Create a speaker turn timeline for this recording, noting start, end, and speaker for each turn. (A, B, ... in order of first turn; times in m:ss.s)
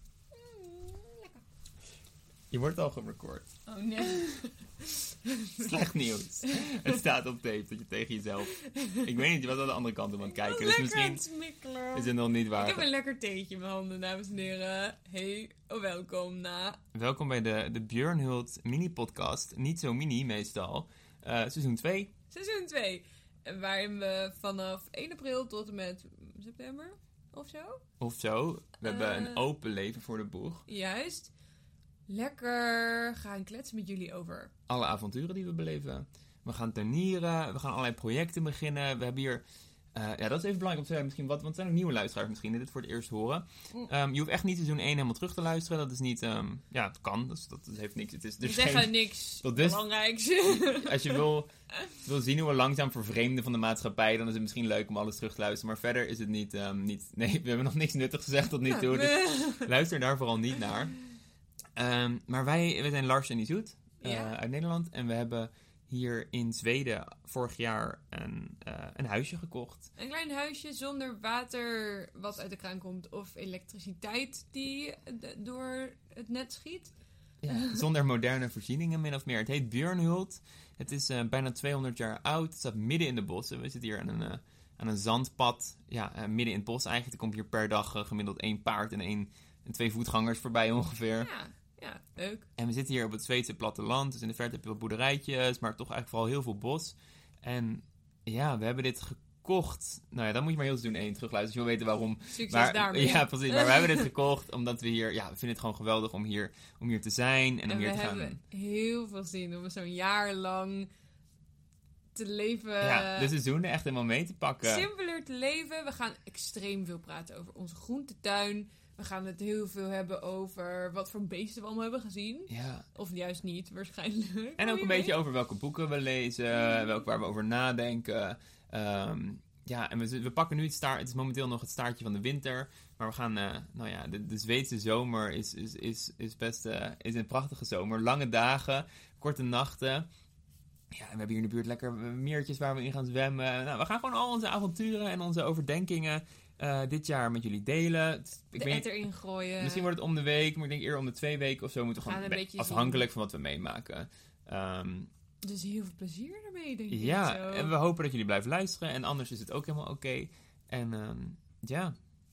0:00.3-0:01.4 A
0:02.5-0:03.5 B
0:03.7-0:05.7 A
0:05.6-0:11.2 B
0:06.5-0:06.9 A
0:08.7-0:09.0 A
0:10.2-0:16.8 A
0:11.9-0:12.9 B
0:16.9-0:22.1 B
0:22.3-0:27.8 A
0:28.0-0:30.7 B
0:28.8-0:29.4 A
0:30.7-0:31.3 A
0:32.1-0:34.5 A
0:34.7-0:39.4 B
0:40.0-0:49.8 B
0:48.4-0:51.2 A
0:50.5-0:51.5 B
0:52.0-1:01.0 B
0:58.7-0:59.7 A
1:01.8-1:09.9 B
1:04.0-1:04.4 A
1:10.0-1:16.9 A
1:17.4-1:31.3 B
1:17.5-1:17.8 A
1:31.2-1:32.5 A
1:32.6-1:48.4 B
1:42.3-1:44.1 A
1:47.7-1:50.9 A
1:52.2-1:53.3 A
1:52.8-1:54.9 B
1:54.6-2:05.2 A
2:02.5-2:02.8 B
2:04.6-2:20.1 B
2:20.9-2:28.9 B
2:28.5-2:29.9 A
2:29.6-2:35.1 B
2:32.0-2:33.1 A
2:35.4-2:37.7 A
2:36.9-2:41.9 B